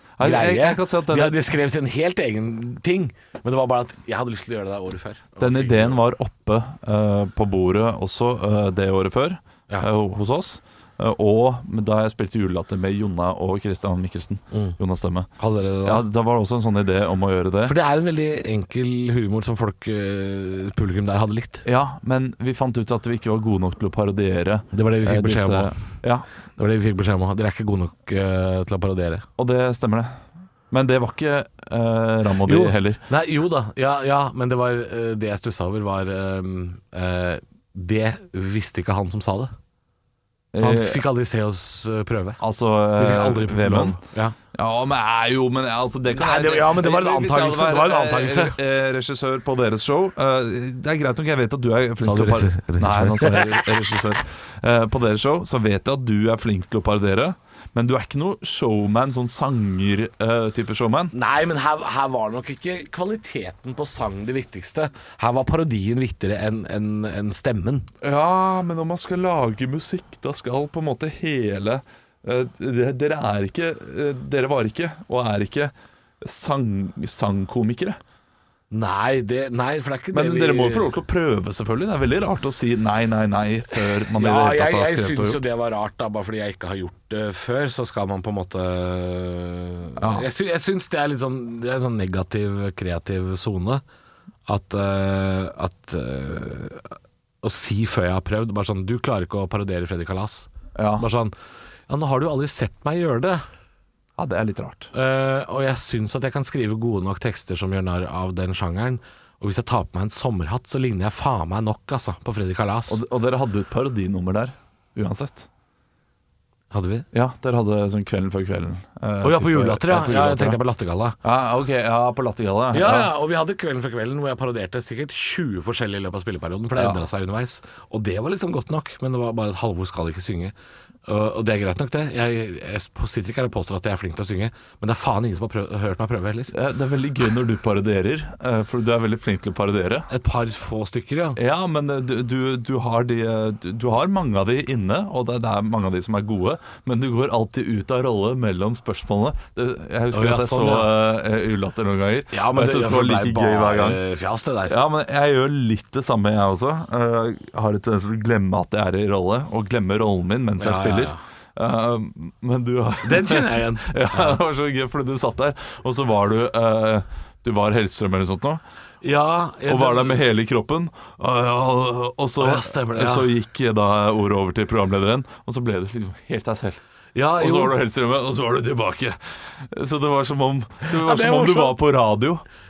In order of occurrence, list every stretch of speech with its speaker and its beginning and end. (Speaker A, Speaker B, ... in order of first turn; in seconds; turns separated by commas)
Speaker A: 0.2-1.4, Speaker B: 0.2-6.0, Speaker A: 5.4-15.3, Speaker B: 14.5-14.8, Speaker B: 15.4-16.0, Speaker A: 15.8-17.8, Speaker B: 17.6-21.6, Speaker A: 21.6-26.3, Speaker B: 24.7-25.8, Speaker B: 26.6-29.3, Speaker A: 29.4-33.0, Speaker B: 32.4-39.5, Speaker A: 40.5-41.0, Speaker B: 40.6-42.4, Speaker A: 42.4-44.0, Speaker B: 43.0-44.4, Speaker A: 44.5-61.1, Speaker B: 46.1-48.5, Speaker B: 52.0-54.0, Speaker B: 61.1-67.9, Speaker A: 68.0-78.0, Speaker B: 78.7-80.9, Speaker A: 80.1-85.4, Speaker B: 84.0-93.8, Speaker A: 90.0-90.3, Speaker B: 94.5-101.3, Speaker A: 100.7-101.1, Speaker B: 101.9-103.4, Speaker A: 104.2-104.9, Speaker B: 104.9-113.0, Speaker A: 112.9-115.5, Speaker B: 116.7-117.1, Speaker A: 117.1-120.6, Speaker B: 119.2-121.2, Speaker A: 121.2-123.1, Speaker B: 122.7-130.5, Speaker A: 126.7-127.0, Speaker B: 131.1-136.5, Speaker A: 136.5-140.1, Speaker B: 140.1-141.4, Speaker A: 141.3-154.0, Speaker B: 150.1-150.9, Speaker B: 152.3-154.8, Speaker A: 154.7-168.6, Speaker B: 160.6-161.2, Speaker B: 163.0-164.4, Speaker B: 169.0-170.2, Speaker A: 169.7-176.8, Speaker B: 172.4-173.3, Speaker B: 177.1-177.8, Speaker A: 177.4-182.4, Speaker B: 180.8-181.8